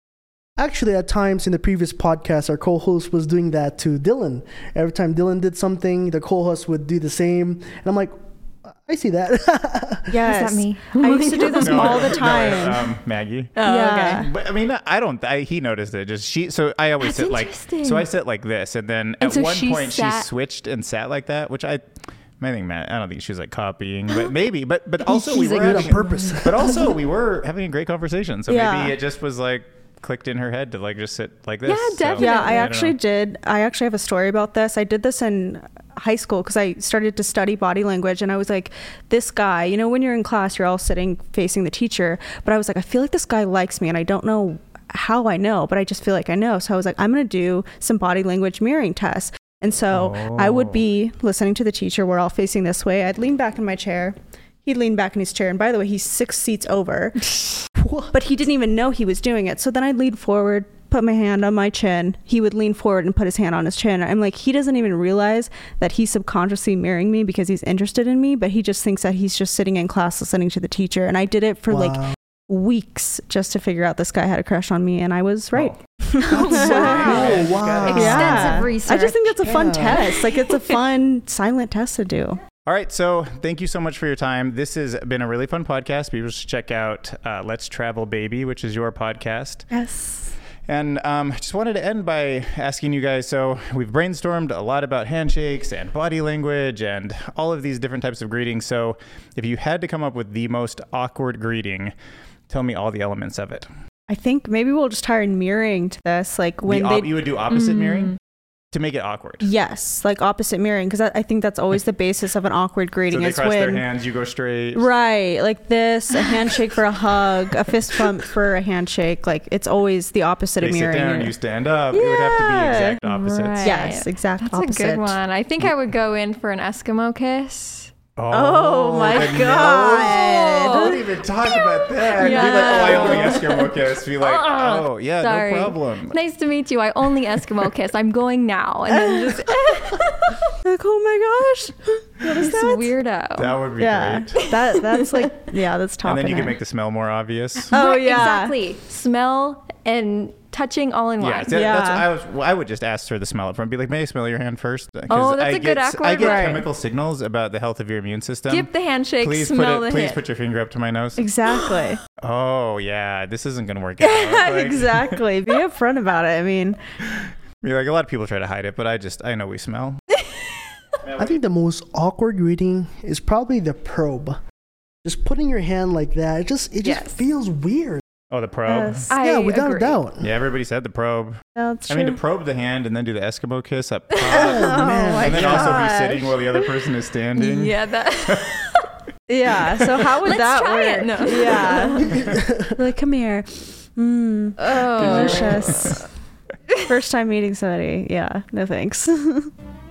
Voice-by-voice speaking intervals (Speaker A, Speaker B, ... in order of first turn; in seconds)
Speaker A: 0.6-10.2, 25.4-26.8, 57.8-58.1, 71.7-72.2, 76.5-78.6, 79.4-80.0, 171.2-174.4, 175.0-178.0, 179.2-180.3, 184.3-185.8, 192.0-192.8
Speaker B: 10.1-12.8, 13.6-14.3, 28.5-29.0, 32.2-82.4, 89.7-90.3, 104.1-107.1, 109.4-113.8, 114.7-121.3, 121.9-123.0, 123.6-125.2, 128.3-131.0, 132.2-133.6, 138.9-139.5, 140.6-142.9, 143.8-146.6, 147.7-148.6, 151.5-152.1, 156.2-156.7, 161.2-162.0, 164.0-166.8, 178.7-179.2, 181.6-182.2, 184.3-186.4, 189.3-196.1, 196.9-199.5
Speaker C: 10.2-12.3, 13.6-14.3, 17.0-18.1, 19.2-20.3, 25.1-26.4, 31.7-32.7, 76.3-80.8, 107.5-108.2, 123.0-127.9, 130.1-140.5, 142.3-143.6, 144.3-145.3, 147.7-151.6, 155.1-156.6, 158.5-160.2, 179.1-180.0, 187.4-188.9, 190.2-192.2, 194.6-196.0
Speaker D: 11.5-21.8, 22.4-33.0, 49.9-50.8, 75.5-78.5, 82.7-89.7, 90.7-101.9, 102.5-103.7, 106.7-108.2, 108.7-109.5, 113.1-114.9, 120.6-123.8, 128.2-136.2, 143.4-144.4, 146.1-147.8, 151.2-158.7, 159.2-161.2, 162.2-165.2, 167.6-170.0, 171.0-171.4, 178.3-179.1, 180.2-188.5, 192.1-192.4, 195.0-196.0